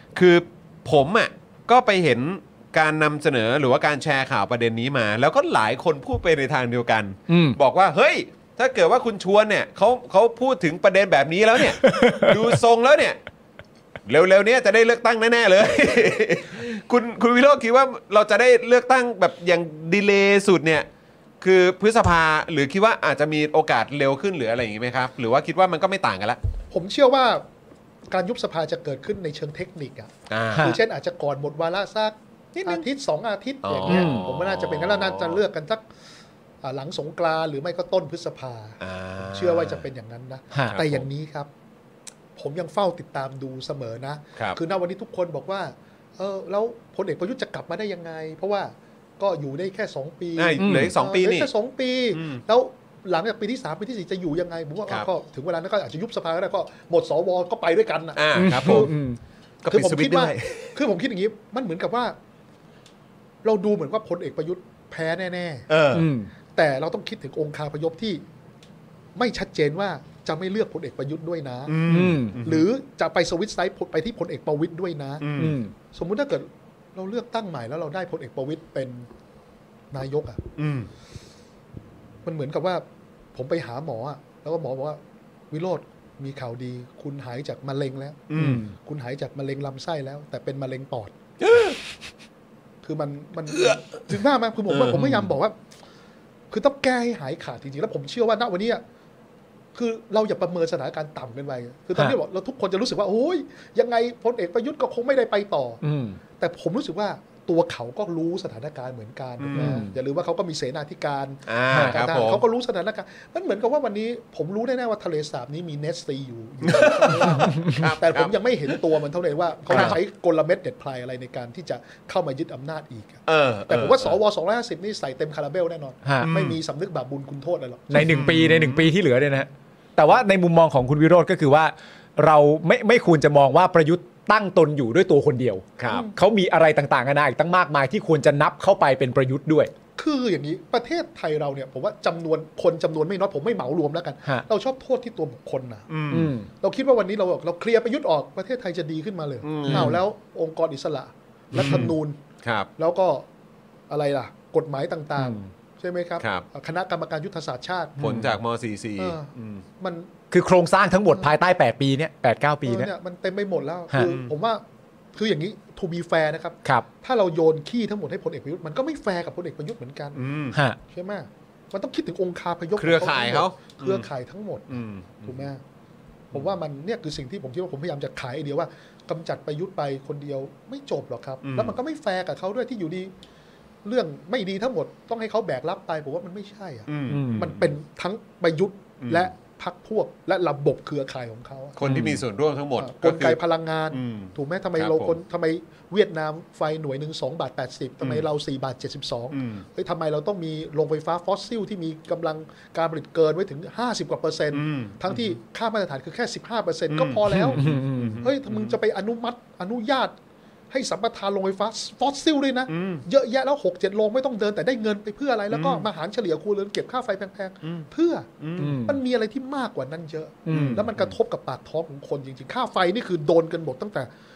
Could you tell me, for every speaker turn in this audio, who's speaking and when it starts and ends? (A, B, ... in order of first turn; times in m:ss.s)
0:00.1-0:13.2 A
0:07.3-0:07.6 B
0:11.8-0:12.6 B
0:14.0-0:20.9 A
0:21.4-0:26.4 A
0:26.7-0:27.4 C
0:28.1-0:35.9 C
0:30.3-0:30.8 A
0:32.6-0:32.8 A
0:33.6-0:35.4 A
0:33.9-0:34.3 B
0:36.6-0:41.5 C
0:38.8-0:39.8 A
0:40.5-0:40.8 B
0:40.7-0:41.0 A
0:42.4-0:59.0 C
0:50.4-0:51.5 A
0:50.6-0:50.9 B
0:52.1-0:52.4 A
0:58.2-0:58.9 A
0:58.3-0:59.2 B
0:59.6-1:00.8 A
0:59.7-1:02.2 C
1:03.4-1:05.7 C
1:05.7-1:06.1 A
1:05.9-1:06.3 B
1:06.5-1:08.2 C
1:09.1-1:15.3 C
1:11.7-1:12.6 A
1:11.8-1:12.4 B
1:15.2-1:15.6 A
1:15.4-1:15.7 B
1:15.9-1:19.1 C
1:19.9-1:20.5 C
1:20.6-1:20.9 A
1:22.2-1:31.1 C
1:28.3-1:28.6 A
1:28.3-1:28.7 B
1:31.5-1:31.7 A
1:32.8-1:35.6 C
1:34.7-1:34.9 A
1:35.0-1:35.3 B
1:36.5-1:38.8 C
1:39.7-1:45.8 C
1:45.8-1:46.2 B
1:46.4-2:08.2 C
1:49.4-1:49.8 A
1:49.5-1:49.9 B
1:51.5-1:52.4 A
1:51.7-1:51.9 B
1:56.6-1:58.7 A
1:59.7-2:00.0 B
1:59.7-2:00.0 A
2:03.2-2:04.2 A
2:06.0-2:06.3 B
2:06.2-2:06.6 A
2:07.9-2:19.7 B
2:07.9-2:08.9 A
2:15.8-2:16.1 A
2:19.9-2:25.9 C
2:25.9-2:26.3 A
2:26.1-2:26.5 B
2:26.5-2:32.2 C
2:29.4-2:30.0 A
2:29.7-2:30.0 B
2:31.5-2:31.9 A
2:32.4-2:32.7 A
2:32.8-2:33.3 C
2:33.9-2:38.1 C
2:35.2-2:35.5 B
2:36.2-2:36.4 A
2:38.0-2:39.6 A
2:38.0-2:38.3 B
2:39.0-2:40.2 C
2:40.3-2:42.9 B
2:41.1-2:41.4 C
2:42.6-2:55.6 C
2:43.9-2:44.2 B
2:44.0-2:44.3 A
2:50.1-2:50.6 A
2:50.5-2:50.8 B
2:52.8-2:54.1 A
2:54.7-2:55.5 A
2:56.3-3:03.1 C
3:01.4-3:01.8 A
3:03.8-3:11.8 C
3:06.9-3:07.7 A
3:07.1-3:07.6 B
3:09.0-3:09.3 A
3:11.8-3:13.4 A
3:11.8-3:12.2 B
3:12.8-3:27.6 C
3:13.9-3:15.2 A
3:18.0-3:18.2 A
3:19.3-3:19.6 A
3:24.5-3:25.4 A
3:26.9-3:28.8 A
3:27.3-3:28.2 B
3:28.2-3:30.2 C
3:30.7-3:44.1 C
3:32.7-3:33.0 A
3:35.5-3:35.9 A
3:38.4-3:38.8 A
3:38.6-3:39.0 B
3:40.4-3:40.9 B
3:40.5-3:41.2 A